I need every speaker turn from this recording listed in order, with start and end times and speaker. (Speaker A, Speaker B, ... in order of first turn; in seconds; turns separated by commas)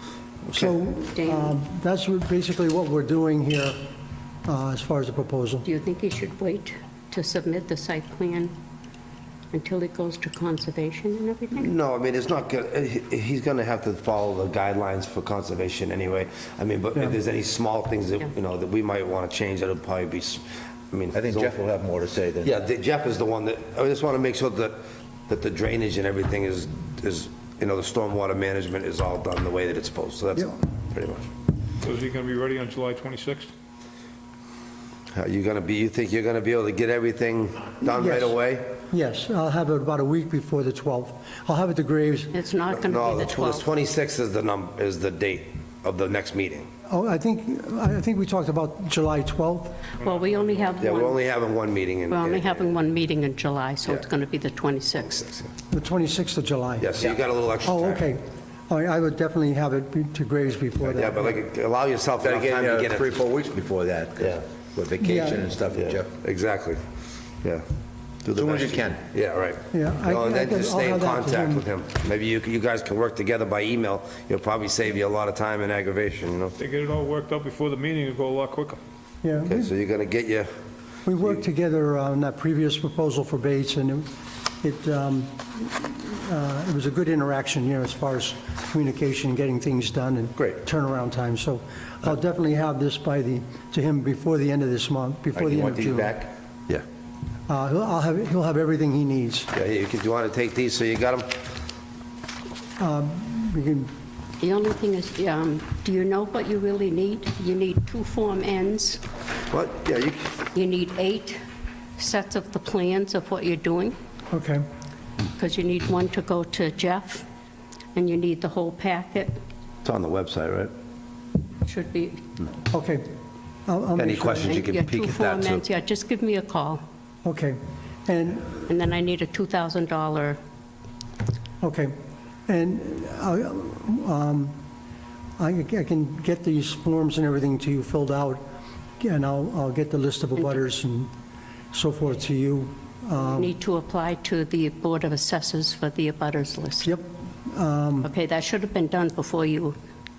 Speaker A: 0.5-3.8, Speaker B: 1.1-1.6, Speaker A: 4.5-5.7, Speaker B: 5.6-8.5, Speaker B: 9.5-11.7, Speaker C: 11.6-21.6, Speaker D: 21.1-22.6, Speaker C: 22.4-31.3, Speaker E: 31.8-33.5, Speaker C: 35.1-38.7, Speaker A: 37.8-38.4, Speaker A: 38.9-42.3, Speaker B: 42.3-43.7, Speaker C: 42.7-46.7, Speaker A: 46.9-49.8, Speaker E: 50.0-50.9, Speaker B: 50.0-51.2, Speaker C: 50.8-52.8, Speaker B: 52.1-55.2, Speaker C: 55.0-55.5, Speaker A: 55.7-56.9, Speaker C: 56.8-58.1, Speaker A: 57.6-61.4, Speaker C: 60.8-63.2, Speaker D: 62.2-66.1, Speaker A: 65.0-65.5, Speaker C: 65.7-66.8, Speaker C: 68.2-76.5, Speaker D: 68.3-69.0, Speaker A: 69.7-71.7, Speaker E: 76.6-78.8, Speaker A: 79.2-79.7, Speaker C: 79.4-80.5, Speaker A: 81.0-84.1, Speaker A: 84.6-96.1, Speaker D: 95.3-96.3, Speaker A: 97.5-99.5, Speaker C: 99.5-101.3, Speaker A: 102.8-103.9, Speaker B: 104.4-109.0, Speaker C: 109.5-110.3, Speaker B: 110.5-111.4, Speaker B: 112.0-114.0, Speaker A: 114.3-114.6, Speaker B: 115.4-117.2, Speaker B: 117.9-119.3, Speaker C: 119.8-120.7, Speaker B: 121.6-122.2, Speaker A: 122.7-123.0, Speaker A: 123.7-124.6, Speaker C: 124.0-125.6, Speaker B: 124.4-126.8, Speaker A: 127.2-128.5, Speaker B: 128.6-130.4, Speaker A: 131.6-131.9, Speaker A: 132.5-134.5, Speaker A: 135.4-138.4, Speaker A: 139.0-141.1, Speaker A: 141.7-143.5, Speaker B: 143.2-146.9, Speaker A: 146.8-148.1, Speaker B: 148.0-149.8